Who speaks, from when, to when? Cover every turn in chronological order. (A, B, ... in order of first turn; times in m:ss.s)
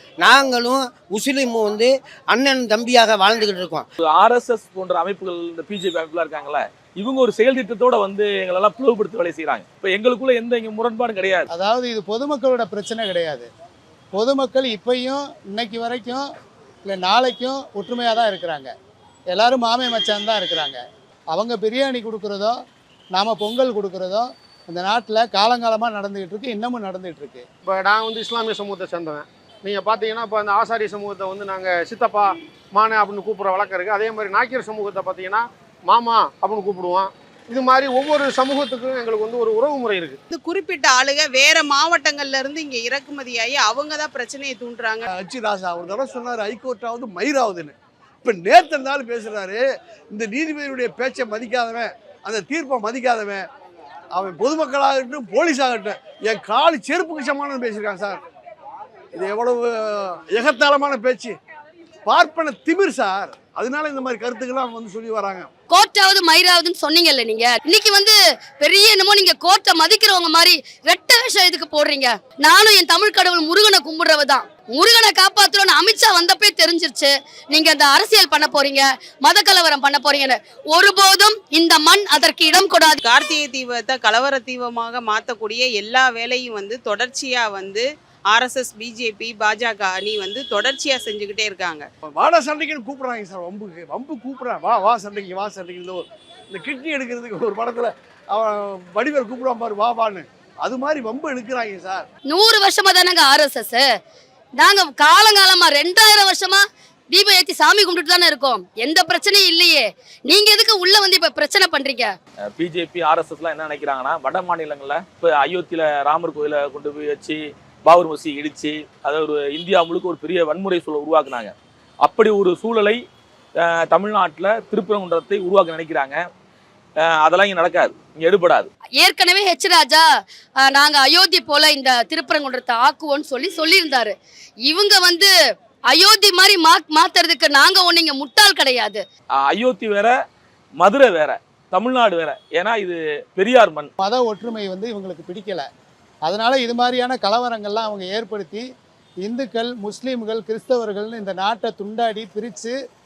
0:00.2-0:03.9 A
0:04.0-0:11.5 B
0:11.5-0:13.5 C
0:14.1-0:16.2 C
0:16.9-0:18.7 C
0:19.3-0:20.8 C
0:21.3-0:22.5 C
0:23.1-0:27.4 C
0:27.7-0:40.2 D
0:40.3-0:45.1 E
0:45.1-0:47.7 F
0:48.2-0:49.6 F
0:50.1-0:53.4 F
0:54.1-0:58.2 F
0:59.1-1:01.3 F
1:02.1-1:05.5 F
1:05.7-1:23.0 G
1:23.0-1:31.8 E
1:32.2-1:42.0 F
1:42.3-1:43.9 G
1:44.6-1:52.1 G
1:52.5-2:03.0 B
2:03.7-2:06.2 B
2:07.0-2:08.7 B
2:09.0-2:10.0 G
2:10.6-2:14.1 G
2:14.7-2:15.3 G
2:15.9-2:19.0 G
2:19.4-2:20.1 B
2:20.8-2:23.9 B
2:24.0-2:25.7 C
2:26.2-2:28.6 C
2:29.2-2:32.7 C